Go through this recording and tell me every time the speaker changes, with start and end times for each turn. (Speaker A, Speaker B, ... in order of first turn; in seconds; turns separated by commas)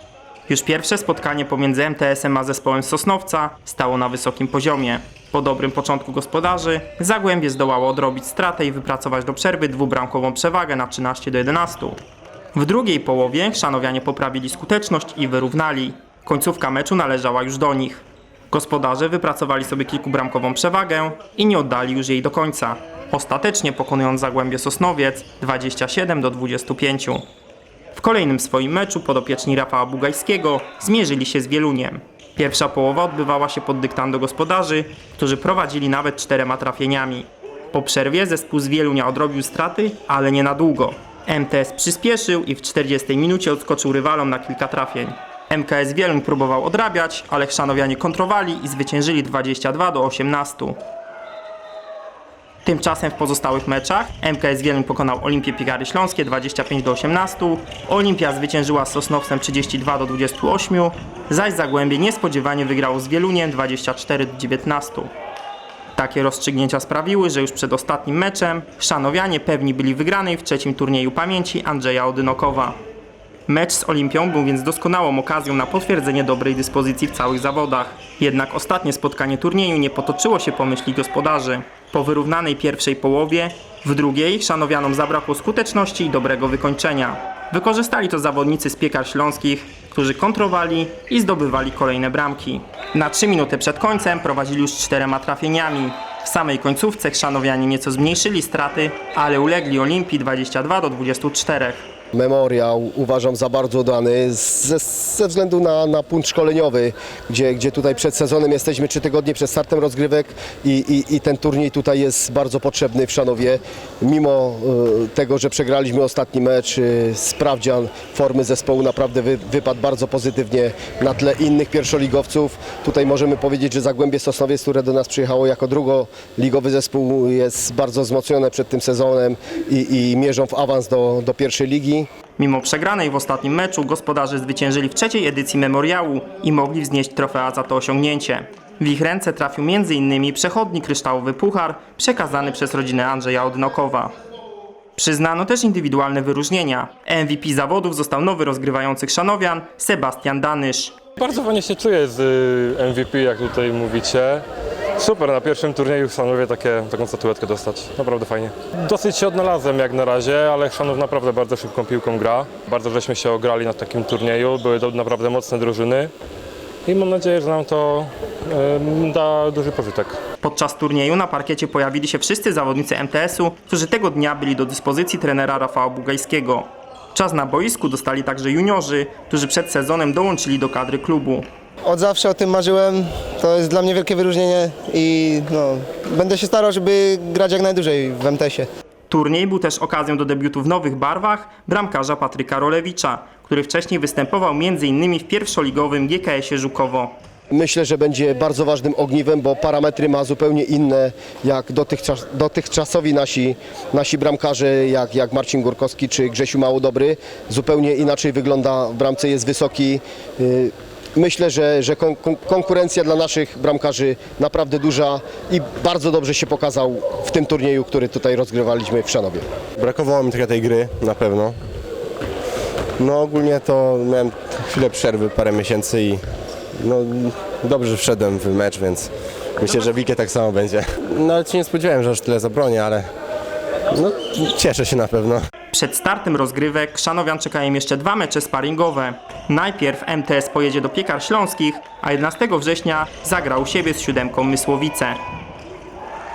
Speaker A: 0.5-12.0, Speaker A: 12.5-27.2, Speaker A: 27.9-50.8, Speaker A: 52.6-65.1, Speaker A: 66.0-72.8, Speaker A: 73.5-101.9, Speaker B: 102.1-132.1, Speaker A: 132.4-144.1, Speaker A: 145.0-151.0, Speaker C: 151.2-154.4, Speaker C: 155.0-166.1, Speaker C: 166.9-170.2, Speaker A: 170.4-181.5, Speaker D: 181.9-188.7, Speaker A: 189.1-197.1, Speaker B: 197.5-219.4, Speaker E: 219.8-221.6, Speaker E: 223.0-226.2, Speaker E: 226.8-233.1, Speaker E: 233.9-235.4, Speaker A: 235.7-245.2